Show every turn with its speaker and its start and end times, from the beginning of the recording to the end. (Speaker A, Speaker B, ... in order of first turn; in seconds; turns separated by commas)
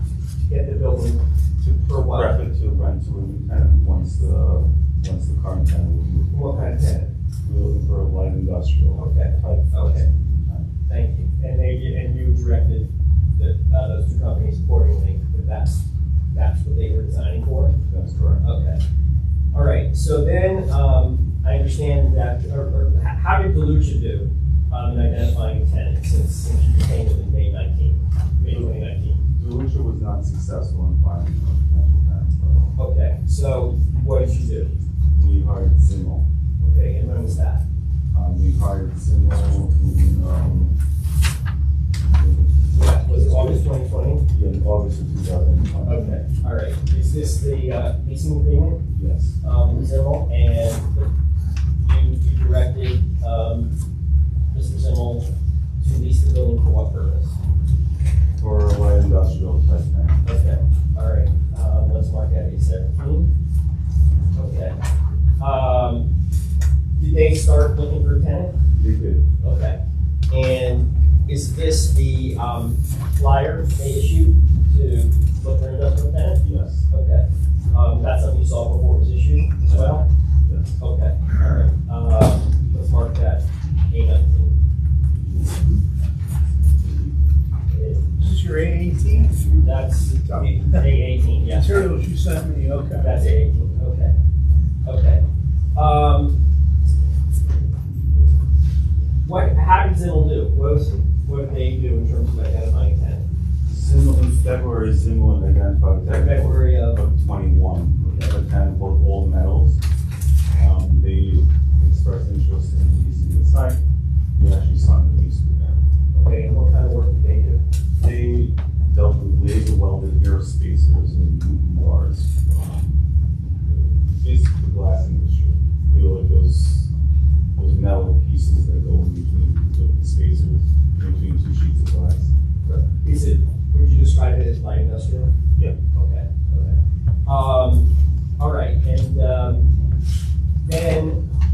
Speaker A: 0.4-2.4, Speaker B: 1.9-6.7, Speaker A: 6.3-7.1, Speaker B: 7.4-10.7, Speaker A: 9.0-10.1, Speaker A: 10.9-17.8, Speaker B: 17.9-18.4, Speaker A: 18.4-18.8, Speaker A: 19.5-29.2, Speaker B: 28.4-28.7, Speaker B: 29.3-32.8, Speaker A: 32.8-34.7, Speaker B: 35.1-36.2, Speaker A: 36.6-37.6, Speaker B: 38.1-40.7, Speaker B: 42.1-43.6, Speaker A: 42.7-44.2, Speaker B: 44.3-46.2, Speaker A: 45.9-48.8, Speaker B: 48.9-49.4, Speaker A: 49.4-51.1, Speaker A: 51.8-53.7, Speaker A: 54.5-57.4, Speaker B: 58.4-60.2, Speaker A: 60.2-63.3, Speaker A: 64.3-64.8, Speaker A: 65.4-66.1, Speaker A: 67.0-68.6, Speaker B: 68.7-69.3, Speaker A: 69.4-69.8, Speaker A: 70.3-80.1, Speaker B: 76.4-76.8, Speaker B: 79.7-80.7, Speaker A: 80.8-84.6, Speaker B: 85.1-85.7, Speaker A: 87.7-88.1, Speaker C: 88.2-90.9, Speaker A: 89.6-91.9, Speaker C: 91.5-93.2, Speaker A: 93.0-94.1, Speaker A: 94.8-95.2, Speaker A: 95.8-96.3, Speaker A: 99.2-103.2, Speaker B: 103.7-109.8, Speaker A: 106.0-107.0, Speaker B: 110.5-113.8, Speaker B: 114.3-115.8, Speaker A: 116.1-117.6, Speaker B: 118.0-123.0, Speaker B: 123.6-126.9, Speaker B: 127.5-132.3, Speaker A: 132.6-135.3, Speaker A: 135.9-139.7, Speaker A: 140.6-141.2